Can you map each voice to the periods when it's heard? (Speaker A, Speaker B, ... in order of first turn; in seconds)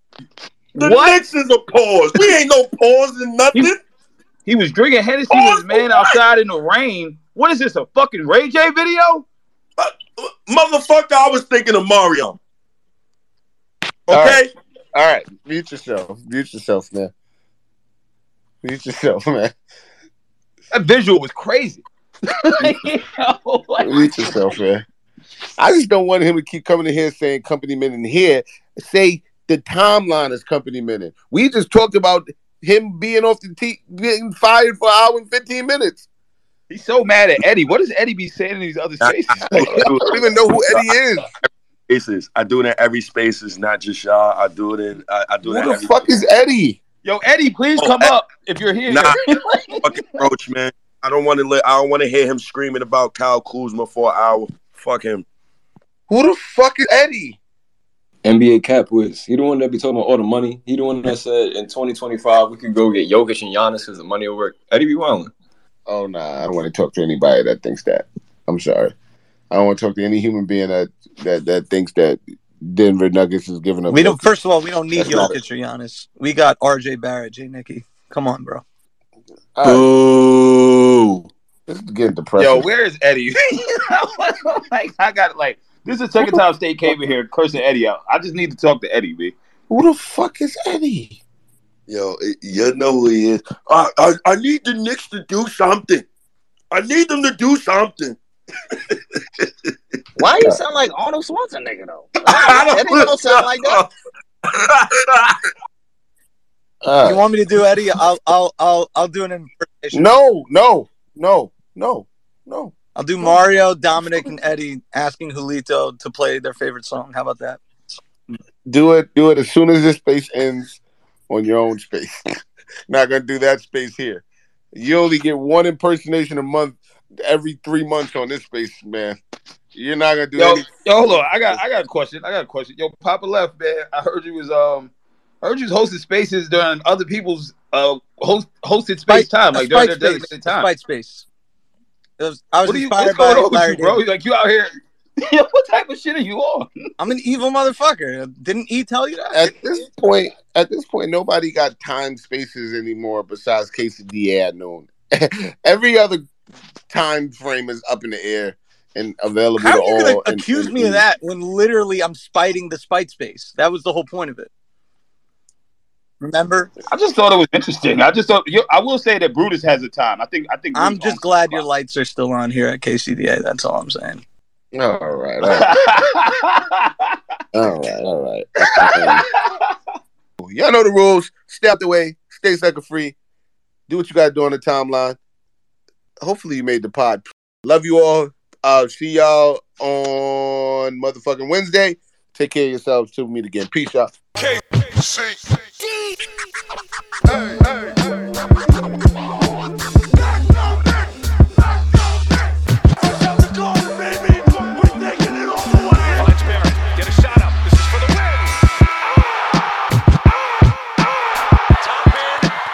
Speaker A: 0.8-1.2, 4.5-9.3, 20.7-24.5, 36.7-39.9, 47.0-49.8, 82.4-89.3, 130.4-140.7, 142.7-146.7, 166.9-171.6, 175.5-177.2, 178.9-179.5
Speaker B: 0.8-3.8, 5.3-6.2, 9.8-12.4, 14.1-14.5, 39.0-40.9, 41.9-46.0, 47.8-48.1, 48.9-49.2, 49.8-55.2, 79.7-80.7, 91.9-96.0, 96.7-98.2, 98.9-99.7, 102.2-103.9, 104.5-105.3
Speaker C: 14.1-14.4, 14.9-17.1, 18.6-19.5, 23.8-24.8, 25.6-36.0, 39.5-41.3, 45.4-46.8, 56.1-57.4, 65.9-68.9, 69.5-74.3, 75.0-75.4, 79.6-79.8, 81.7-82.7, 89.7-91.2, 106.8-107.2, 109.9-113.4, 118.7-120.8, 121.3-122.2, 122.9-124.2, 124.8-129.2, 129.7-131.6, 149.3-156.3, 156.9-161.0, 174.7-175.8, 177.5-179.2, 180.4-183.2, 183.9-185.2, 186.2-194.2, 197.3-197.8
Speaker D: 58.2-65.3
Speaker E: 73.9-78.6, 107.0-110.0, 113.0-117.6, 139.1-141.3, 142.2-144.0, 147.0-149.6, 159.6-164.5, 166.2-166.7, 170.7-174.2
Speaker F: 100.2-103.8
Speaker G: 194.4-195.4, 203.1-204.4, 205.5-208.7, 211.8-212.5